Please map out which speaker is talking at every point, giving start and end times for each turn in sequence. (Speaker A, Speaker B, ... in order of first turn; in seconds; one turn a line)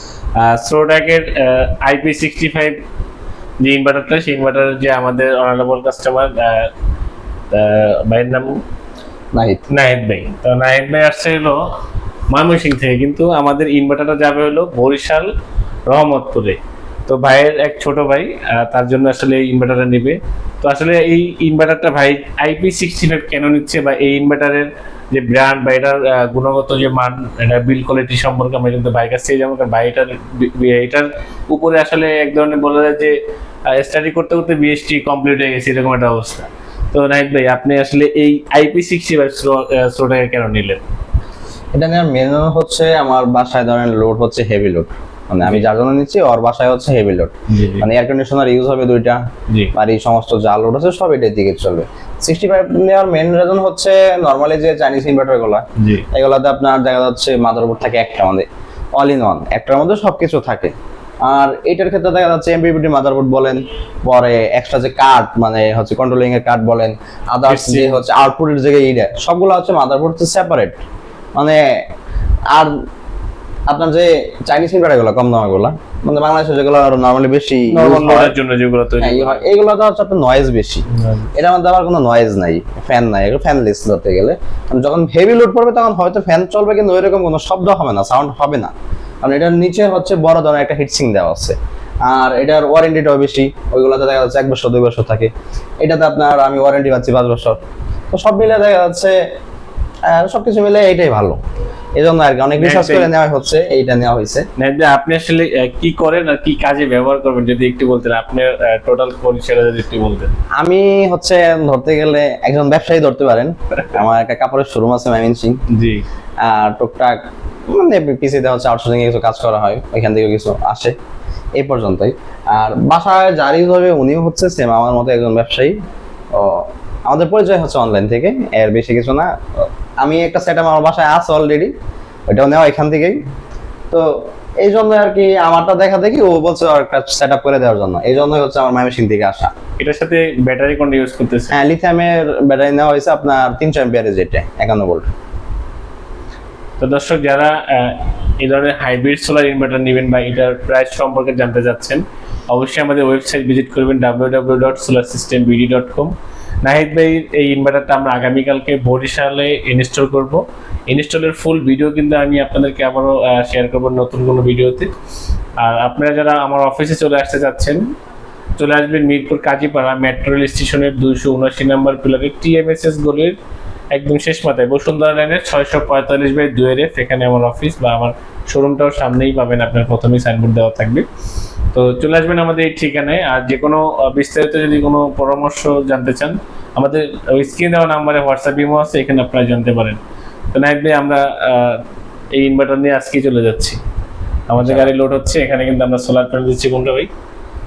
Speaker A: 0.3-2.8
Speaker A: 3.6-6.7
Speaker A: 7.5-8.6
Speaker B: 9.3-9.7
Speaker A: 9.7-11.7
Speaker A: 12.3-15.3
Speaker A: 15.9-33.2
Speaker A: 33.7-40.8
Speaker B: 41.8-49.2
Speaker A: 47.5-47.9
Speaker A: 49.5-49.7
Speaker B: 49.7-60.7
Speaker A: 55.8-56.0
Speaker B: 61.2-70.8
Speaker A: 67.5-68.0
Speaker B: 71.3-71.8
Speaker B: 73.7-78.3
Speaker A: 77.7-79.4
Speaker B: 79.0-97.6
Speaker A: 81.0-81.3
Speaker B: 98.1-99.2
Speaker B: 100.1-101.4
Speaker B: 102.0-104.5
Speaker A: 102.6-103.1
Speaker A: 104.6-110.3
Speaker B: 110.6-115.6
Speaker A: 115.7-116.0
Speaker B: 116.4-121.0
Speaker B: 121.6-125.8
Speaker B: 126.3-131.7
Speaker B: 132.3-133.2
Speaker B: 133.9-139.5
Speaker A: 139.8-141.6
Speaker B: 141.5-145.1
Speaker A: 146.8-156.1
Speaker A: 156.6-164.9
Speaker A: 165.6-167.8
Speaker A: 168.6-173.4
Speaker A: 173.9-181.1
Speaker A: 181.7-190.0
Speaker A: 190.5-191.8
Speaker A: 192.4-193.8
Speaker A: 194.5-197.1
Speaker B: 194.6-194.9